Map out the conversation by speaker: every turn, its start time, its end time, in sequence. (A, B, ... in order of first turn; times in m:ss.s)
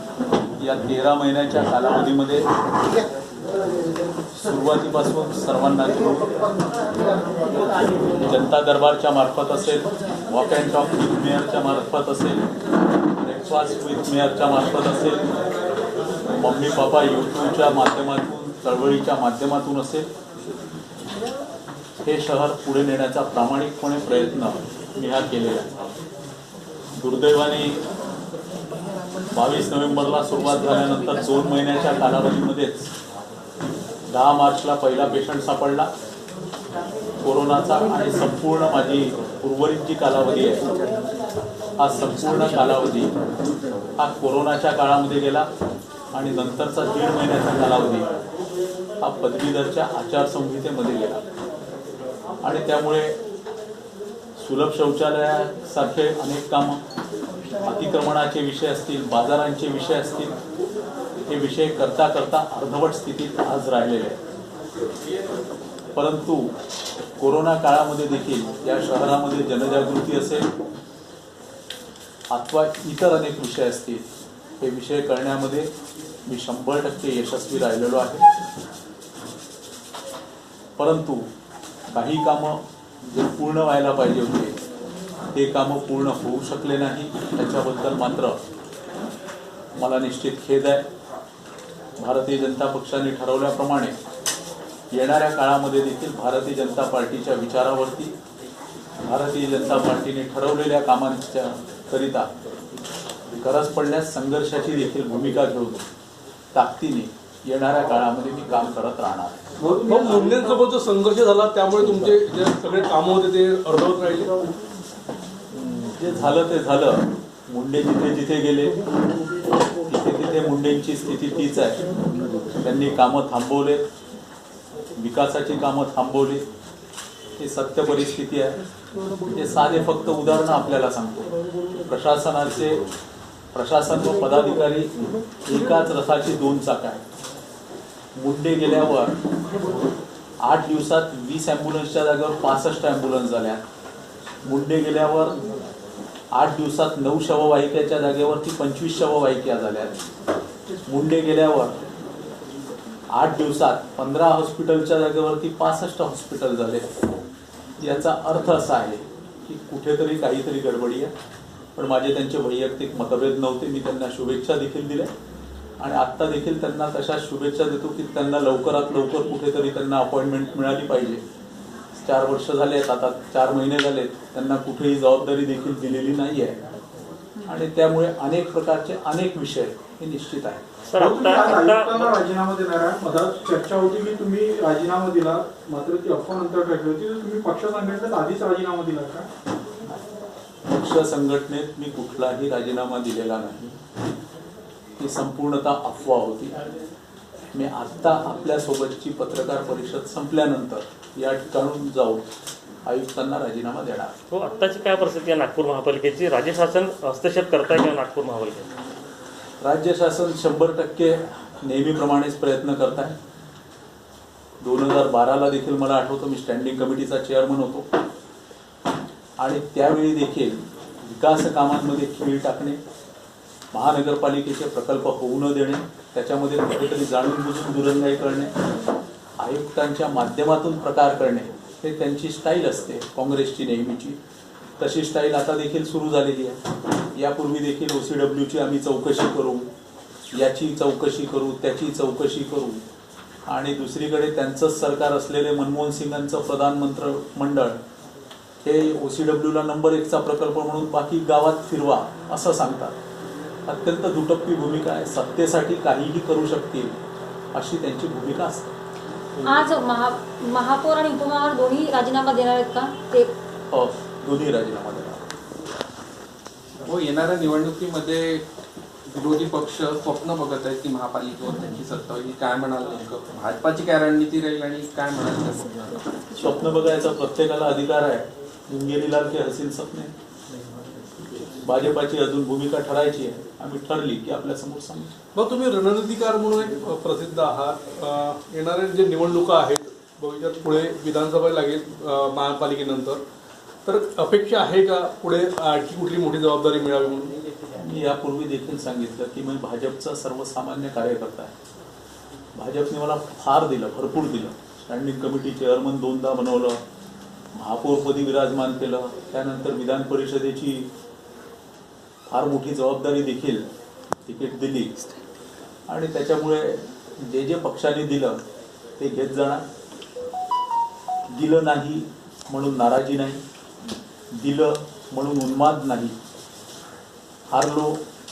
0:00.6-0:02.5 A
0:04.4-0:06.3 A
0:07.6-0:12.5 A
0:13.2-0:15.3 A
0:16.2-0:20.1 A
0:22.0-0:25.7 A
0:27.0-0:27.8 A
0:29.3-0:32.9 A
0:34.1-0:35.9 A
0:37.2-0:40.7 A
0:41.8-0:43.1 A
0:44.0-0:45.5 A
0:46.1-0:48.1 A
0:49.0-0:51.2 A
0:52.4-0:53.2 A
0:54.4-0:56.8 A
0:57.6-1:00.4 A
1:01.3-1:04.2 A
1:06.0-1:06.5 A
1:07.2-1:10.5 A
1:12.3-1:14.0 A
1:14.6-1:15.7 A
1:16.3-1:18.3 A
1:20.8-1:21.3 A
1:21.9-1:24.6 A
1:25.3-1:28.4 A
1:29.8-1:30.9 A
1:32.0-1:34.0 A
1:34.9-1:38.1 A
1:39.0-1:42.3 A
1:43.3-1:45.9 A
1:46.5-1:49.5 A
1:49.7-1:54.4 B
1:55.9-1:58.8 A
1:59.9-2:01.8 A
2:02.6-2:03.8 A
2:05.0-2:06.4 A
2:07.4-2:08.6 A
2:09.3-2:11.3 A
2:11.8-2:12.8 A
2:13.5-2:14.9 A
2:15.4-2:17.0 A
2:18.2-2:19.2 A
2:20.4-2:23.6 A
2:24.4-2:25.4 A
2:26.3-2:30.0 A
2:30.9-2:31.8 A
2:33.1-2:36.9 A
2:37.8-2:41.1 A
2:41.8-2:45.1 A
2:45.8-2:51.2 A
2:52.0-2:56.6 A
2:57.4-3:00.6 A
3:00.9-3:02.1 C
3:01.0-3:09.3 D
3:10.7-3:13.8 A
3:15.0-3:16.6 A
3:17.5-3:22.3 A
3:22.9-3:24.2 A
3:24.3-3:28.7 C
3:29.6-3:33.2 A
3:34.6-3:37.9 A
3:39.4-3:42.8 A
3:43.7-3:48.5 A
3:49.4-3:54.2 A
3:54.8-3:56.6 A
3:57.2-3:59.7 A
4:00.3-4:02.8 A
4:03.5-4:07.8 A
4:08.6-4:13.0 A
4:13.7-4:17.0 A
4:17.5-4:18.8 A
4:19.4-4:23.3 E
4:23.7-4:25.2 A
4:26.8-4:28.5 F
4:29.1-4:36.1 F
4:36.4-4:40.1 A
4:41.6-4:45.2 A
4:45.4-4:53.2 B
4:53.8-4:57.4 B
4:57.8-5:01.6 A
5:02.6-5:06.8 A
5:07.6-5:10.9 A
5:12.3-5:13.6 A
5:14.3-5:15.1 A
5:15.9-5:18.4 A
5:19.0-5:19.6 A
5:21.3-5:23.4 A
5:24.3-5:26.2 A
5:27.5-5:28.0 A